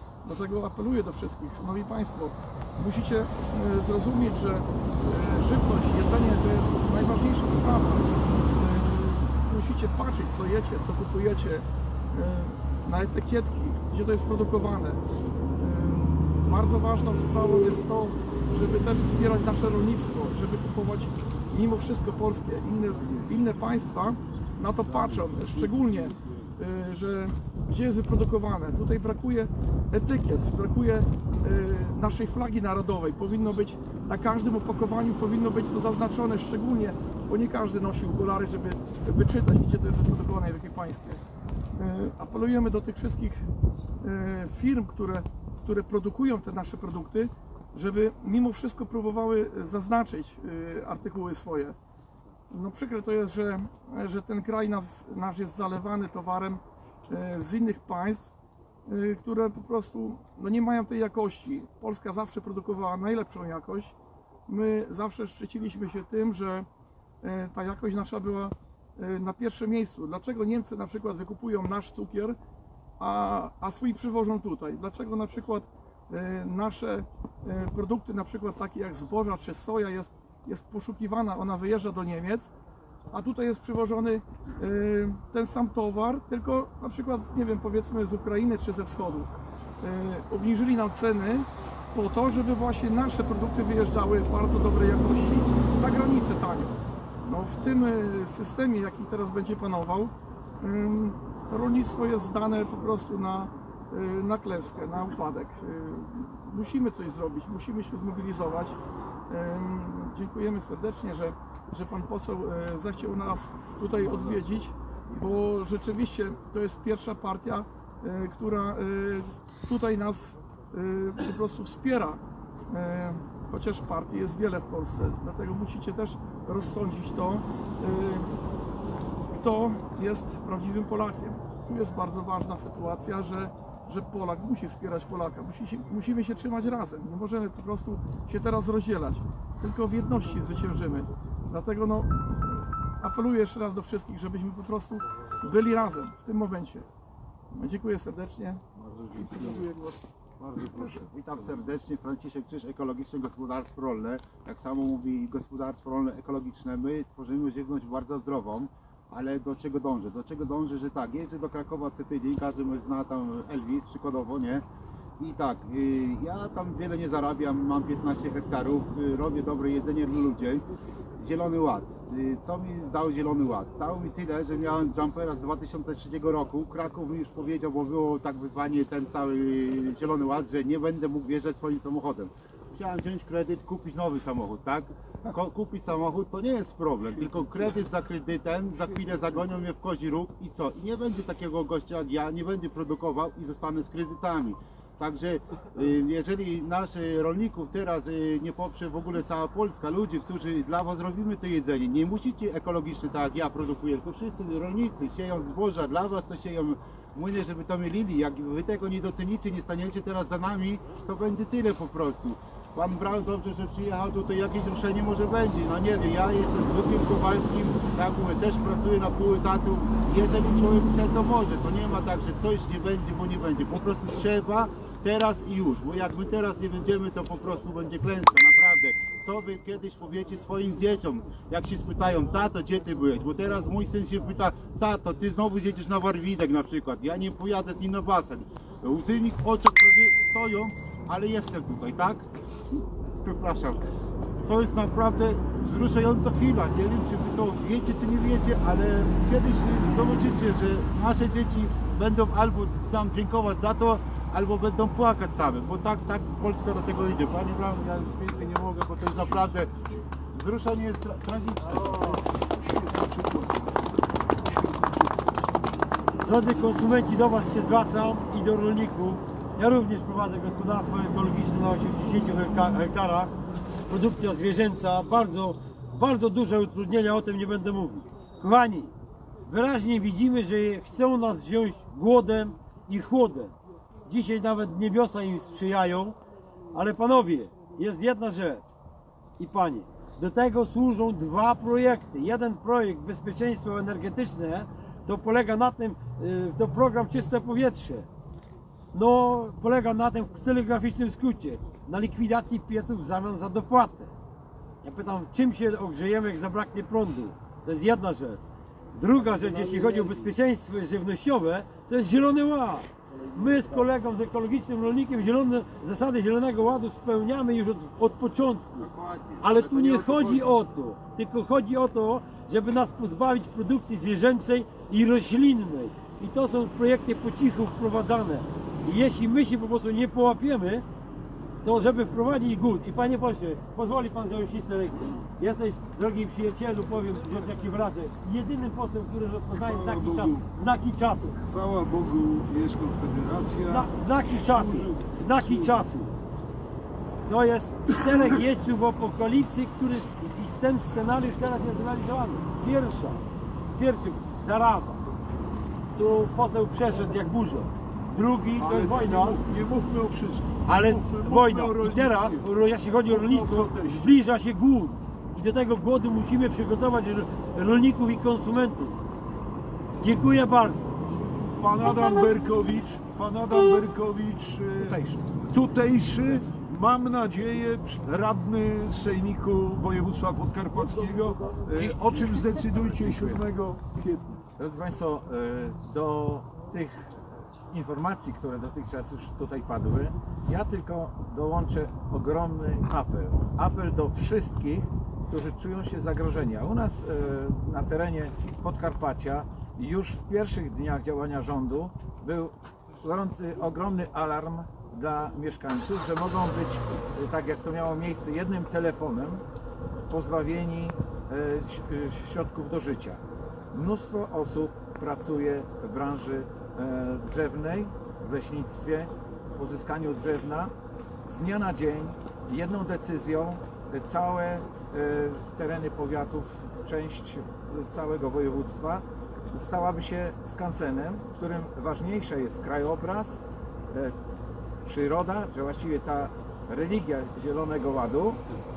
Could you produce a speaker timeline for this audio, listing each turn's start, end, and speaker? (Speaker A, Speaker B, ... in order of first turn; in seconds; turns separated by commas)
Speaker A: 0.2-15.0, Speaker A: 15.6-41.2, Speaker A: 41.8-43.5, Speaker A: 44.0-51.8, Speaker A: 52.5-58.3, Speaker A: 58.9-63.9, Speaker A: 64.5-66.7, Speaker A: 67.2-72.4, Speaker A: 73.0-82.5, Speaker A: 83.1-108.8, Speaker A: 109.3-128.3, Speaker A: 129.3-146.9, Speaker A: 147.5-148.6, Speaker B: 148.8-149.6, Speaker A: 149.1-150.0, Speaker B: 150.4-164.6, Speaker B: 165.2-170.7, Speaker B: 171.2-242.3, Speaker B: 243.2-243.8, Speaker B: 244.4-259.7, Speaker B: 260.3-262.2, Speaker C: 261.8-263.8, Speaker C: 264.4-265.3, Speaker D: 266.2-273.3, Speaker D: 273.9-278.9, Speaker D: 279.4-283.5, Speaker D: 284.1-286.1, Speaker D: 286.7-288.6, Speaker D: 289.4-298.1, Speaker D: 298.9-304.1, Speaker D: 304.8-308.4, Speaker D: 308.9-318.9, Speaker B: 318.8-320.5, Speaker D: 319.4-330.8, Speaker D: 331.6-341.4, Speaker C: 339.5-340.4, Speaker C: 341.4-345.9, Speaker D: 343.6-346.1, Speaker D: 347.2-353.2, Speaker D: 353.7-355.0, Speaker D: 355.9-359.4, Speaker C: 358.6-362.5, Speaker D: 360.6-369.0, Speaker C: 363.0-364.2, Speaker D: 370.0-370.8, Speaker C: 371.6-375.0, Speaker E: 374.8-375.2, Speaker C: 375.5-384.4, Speaker E: 381.7-382.0, Speaker E: 382.6-383.4, Speaker E: 384.6-409.4, Speaker E: 410.1-413.2, Speaker E: 413.7-420.7, Speaker E: 421.2-433.4, Speaker E: 434.8-438.4